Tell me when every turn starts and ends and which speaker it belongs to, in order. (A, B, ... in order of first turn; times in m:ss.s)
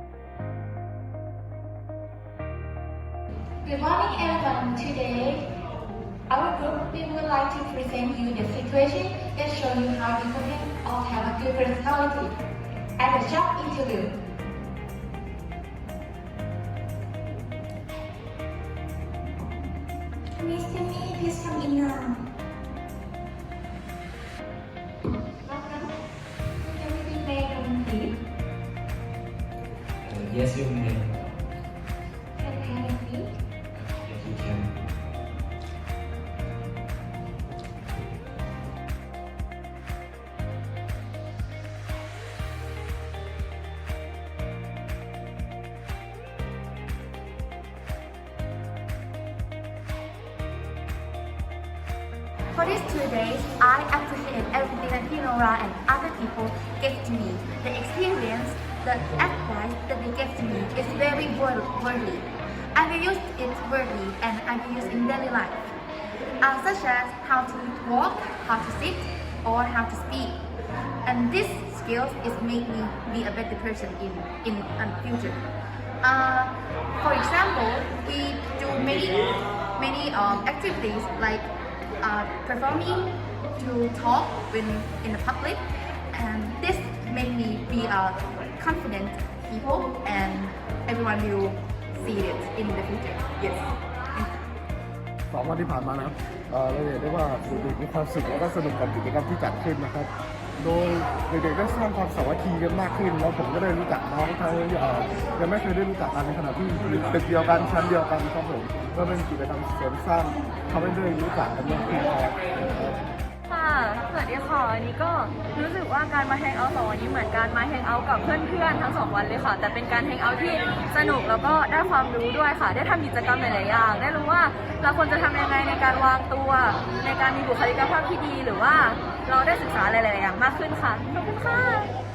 0:03.6-0:05.4 A
0:06.3-0:12.3 A
0:13.0-0:14.1 A
0:20.4-0:22.2 A
0:25.4-0:25.9 A
0:26.6-0:28.1 A
0:30.0-0:31.3 B
0:32.4-0:33.3 A
0:33.7-0:34.7 B
0:52.5-1:05.7 A
1:06.4-1:10.4 A
1:11.0-1:15.4 A
1:16.0-1:21.5 A
1:22.0-1:34.4 A
1:35.3-1:53.0 C
1:53.5-2:11.9 D